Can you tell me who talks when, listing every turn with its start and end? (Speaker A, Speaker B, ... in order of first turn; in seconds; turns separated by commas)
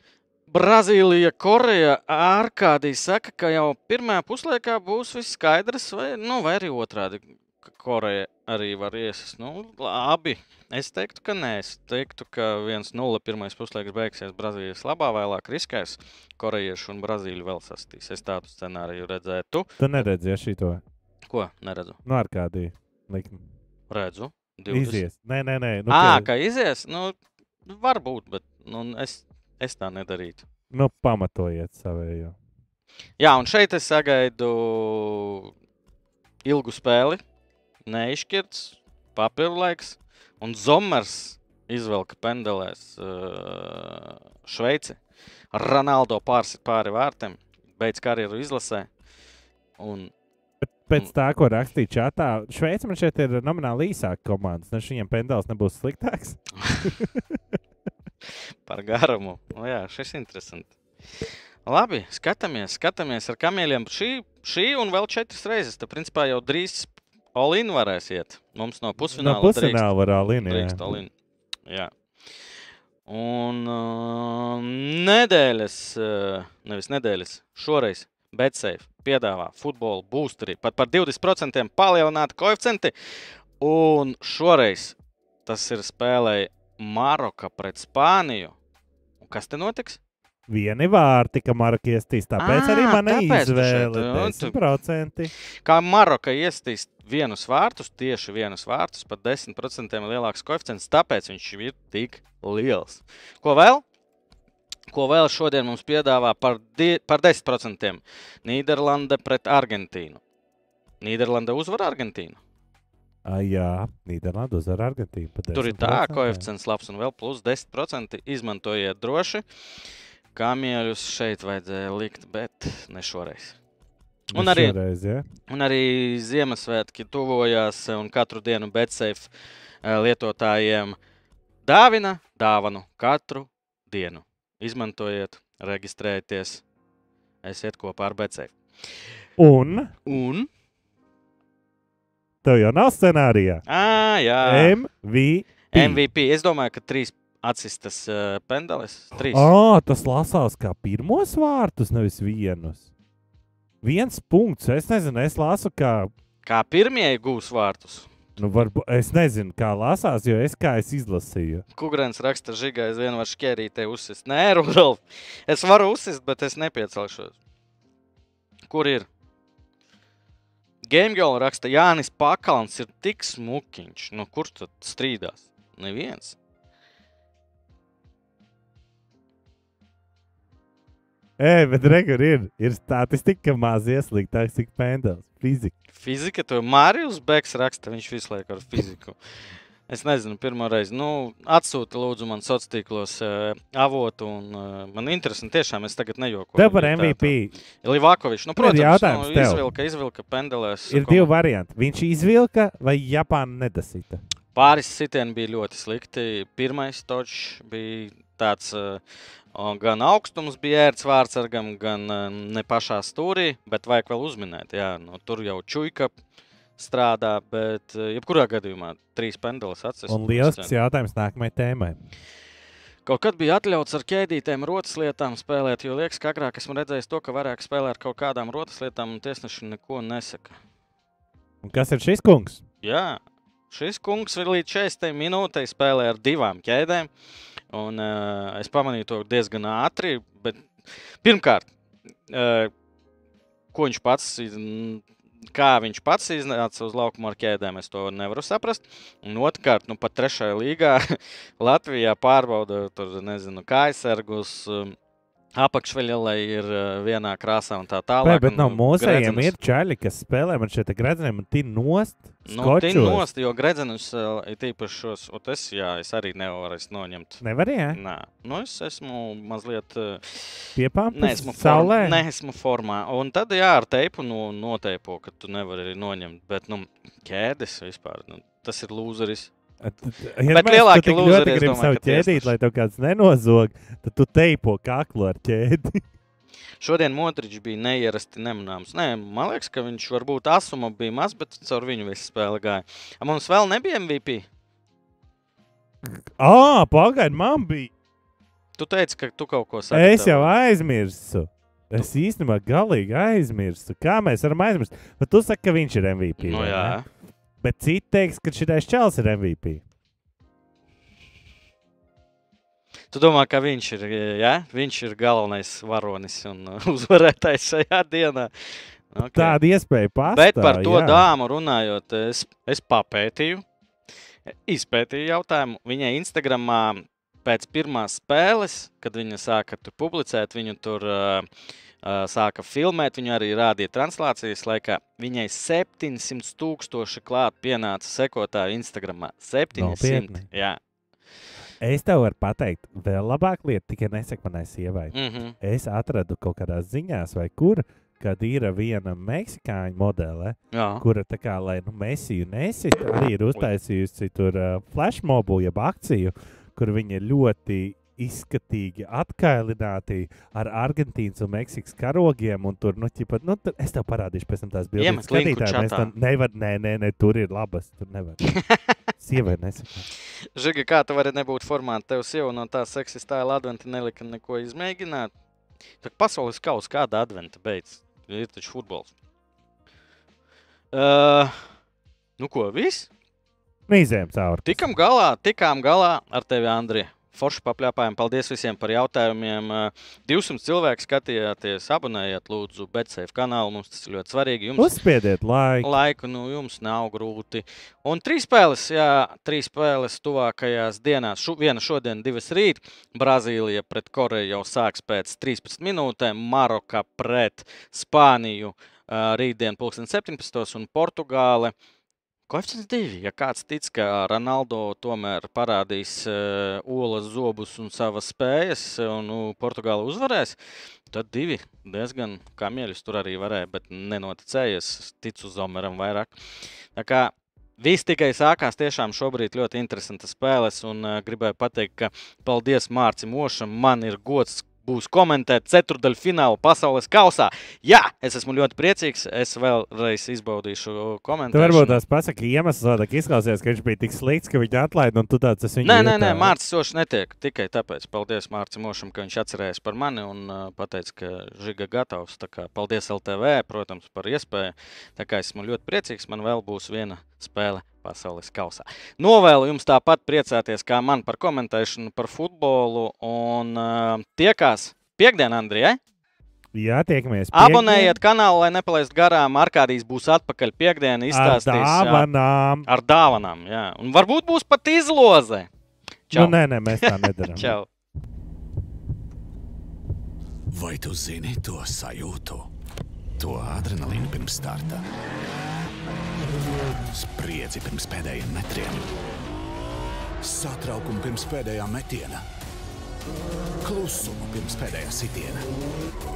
Speaker A: 0.5-19.7, Speaker B: 19.8-20.8, Speaker A: 21.3-22.0, Speaker B: 22.0-23.4, Speaker A: 23.9-25.0, Speaker B: 24.7-26.3, Speaker A: 25.9-30.4, Speaker B: 30.7-32.4, Speaker A: 33.2-35.5, Speaker A: 36.4-37.2, Speaker A: 37.9-45.0, Speaker A: 45.5-48.9, Speaker A: 49.8-50.1, Speaker B: 50.6-57.4, Speaker A: 58.6-60.7, Speaker A: 61.6-71.1, Speaker B: 69.1-70.8, Speaker A: 73.0-82.9, Speaker A: 83.6-88.5, Speaker A: 89.2-90.0, Speaker B: 90.5-95.3, Speaker A: 92.4-94.6, Speaker A: 95.6-103.8, Speaker A: 104.9-110.2, Speaker A: 111.0-112.4, Speaker B: 113.2-116.4, Speaker A: 115.5-119.4, Speaker A: 120.3-123.6, Speaker B: 124.3-125.2, Speaker A: 124.3-124.8, Speaker A: 125.5-129.3, Speaker A: 129.8-131.0, Speaker A: 131.6-136.6, Speaker A: 137.4-138.5, Speaker B: 139.4-139.9, Speaker A: 140.1-140.5, Speaker B: 142.4-143.6, Speaker A: 143.7-144.8, Speaker B: 144.4-146.0, Speaker A: 145.7-149.5, Speaker B: 149.2-152.8, Speaker B: 153.8-156.1, Speaker A: 156.4-158.1, Speaker B: 158.4-161.6, Speaker A: 161.7-167.3, Speaker A: 168.7-169.1, Speaker A: 170.9-176.4, Speaker B: 181.4-185.7, Speaker A: 185.9-189.2, Speaker A: 189.9-201.3, Speaker B: 196.6-197.5, Speaker B: 198.6-199.6, Speaker B: 200.9-204.2, Speaker A: 204.5-209.0, Speaker A: 209.5-216.1, Speaker A: 216.8-220.7, Speaker B: 220.1-222.0, Speaker A: 223.0-230.6, Speaker B: 231.6-232.6, Speaker A: 232.8-237.1, Speaker A: 237.7-240.7, Speaker A: 241.2-241.7, Speaker A: 242.3-242.7, Speaker A: 243.7-254.9, Speaker A: 255.5-259.5, Speaker B: 258.2-263.2, Speaker A: 262.4-279.5, Speaker B: 267.4-268.0, Speaker B: 270.8-272.2, Speaker B: 279.8-286.0, Speaker A: 280.5-282.5, Speaker A: 286.8-294.4, Speaker B: 296.0-297.9, Speaker A: 298.8-300.5, Speaker B: 299.9-307.0, Speaker A: 306.4-307.1, Speaker B: 307.6-309.8, Speaker A: 313.1-318.5, Speaker A: 319.1-319.6, Speaker B: 319.2-321.3, Speaker A: 320.3-323.6, Speaker A: 324.4-331.5, Speaker A: 332.0-340.8, Speaker B: 339.7-340.4, Speaker B: 341.8-368.5, Speaker A: 345.1-345.5, Speaker A: 350.7-351.0, Speaker A: 365.0-366.1, Speaker A: 368.7-368.9, Speaker B: 369.2-370.1, Speaker A: 370.6-375.3, Speaker A: 376.0-379.1, Speaker A: 380.9-381.7, Speaker A: 382.4-383.1, Speaker B: 383.9-384.8, Speaker A: 384.6-394.9, Speaker B: 394.8-395.9, Speaker A: 395.8-411.7, Speaker A: 412.5-420.6, Speaker A: 421.1-426.3, Speaker A: 426.9-442.0, Speaker B: 441.5-446.5, Speaker A: 445.8-466.0, Speaker B: 466.7-468.2, Speaker A: 467.5-472.3, Speaker B: 471.3-472.9, Speaker A: 472.9-475.7, Speaker A: 476.3-477.9, Speaker B: 476.3-477.8, Speaker C: 480.7-482.7, Speaker C: 483.4-485.0, Speaker C: 487.1-489.1, Speaker C: 490.4-492.4, Speaker C: 493.8-495.7